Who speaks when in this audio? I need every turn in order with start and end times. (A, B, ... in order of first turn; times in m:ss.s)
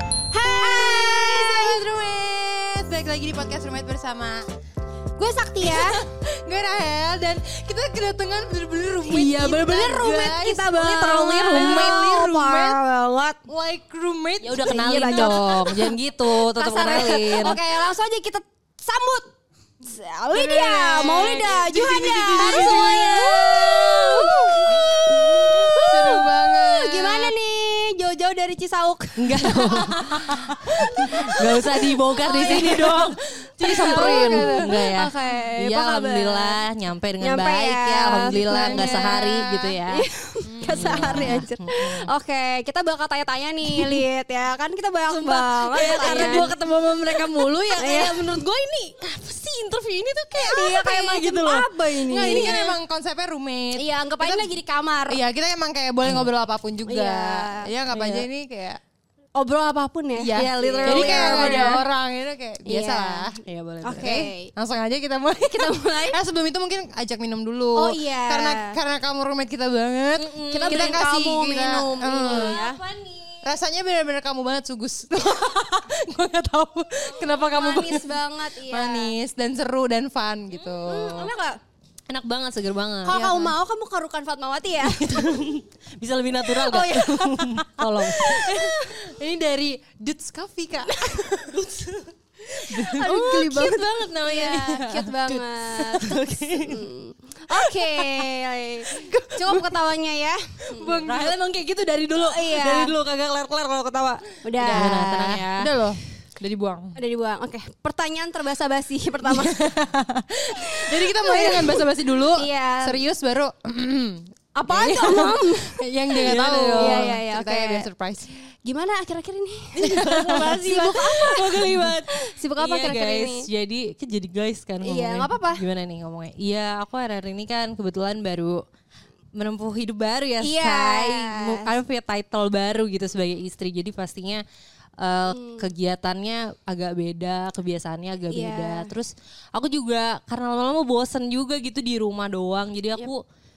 0:00.3-0:01.8 A
0:00.4-0:04.4 B
0:05.2-0:06.0 A
0:05.6-0:12.8 B
0:09.1-0:13.4 A
0:11.0-0:12.0 C
0:13.5-0:15.4 B
0:14.4-0:17.6 C
0:14.5-0:19.3 A
0:19.8-0:33.0 A
0:20.4-0:27.3 B
0:21.0-0:23.2 C
0:29.2-0:40.1 C
0:29.7-0:30.5 B
0:32.3-0:34.7 B
0:33.6-0:36.6 A
0:37.2-0:46.5 A
0:38.3-0:39.8 B
0:40.4-0:41.5 B
0:40.7-0:42.1 C
0:45.1-0:51.7 C
0:45.8-0:46.5 B
0:47.1-0:48.4 A
0:50.4-0:52.6 A
0:52.0-0:54.5 B
0:52.2-0:52.7 C
0:53.8-0:55.2 A
0:55.1-0:58.8 B
0:56.0-0:56.3 C
0:56.9-0:57.7 A
0:57.9-0:58.3 C
0:59.4-1:01.8 A
1:00.2-1:03.4 B
1:00.4-1:01.8 C
1:02.7-1:03.3 A
1:03.4-1:04.3 C
1:03.8-1:04.5 A
1:04.0-1:12.6 B
1:05.4-1:06.2 A
1:07.8-1:08.8 A
1:10.2-1:11.0 C
1:10.5-1:12.8 A
1:12.0-1:13.5 C
1:13.4-1:21.3 B
1:17.5-1:19.1 A
1:20.9-1:21.6 A
1:22.1-1:23.2 C
1:23.1-1:25.4 A
1:23.1-1:23.5 B
1:24.8-1:28.5 C
1:26.5-1:27.4 A
1:27.6-1:31.7 B
1:28.2-1:29.0 A
1:31.5-1:36.8 C
1:32.8-1:40.9 A
1:40.8-1:41.4 B
1:40.8-1:45.7 C
1:42.2-1:42.9 A
1:44.4-1:45.3 A
1:44.6-1:47.0 B
1:47.0-1:49.6 A
1:49.3-1:58.3 B
1:50.6-1:51.8 A
1:52.4-1:53.0 A
1:54.6-1:55.8 A
1:56.2-1:57.2 C
1:56.8-1:57.9 A
1:58.6-2:03.5 A
1:59.8-2:08.6 C
1:59.9-2:00.6 B
2:04.8-2:05.6 A
2:09.4-2:14.4 C
2:10.4-2:11.7 A
2:15.0-2:23.2 C
2:15.3-2:15.7 A
2:18.3-2:18.9 A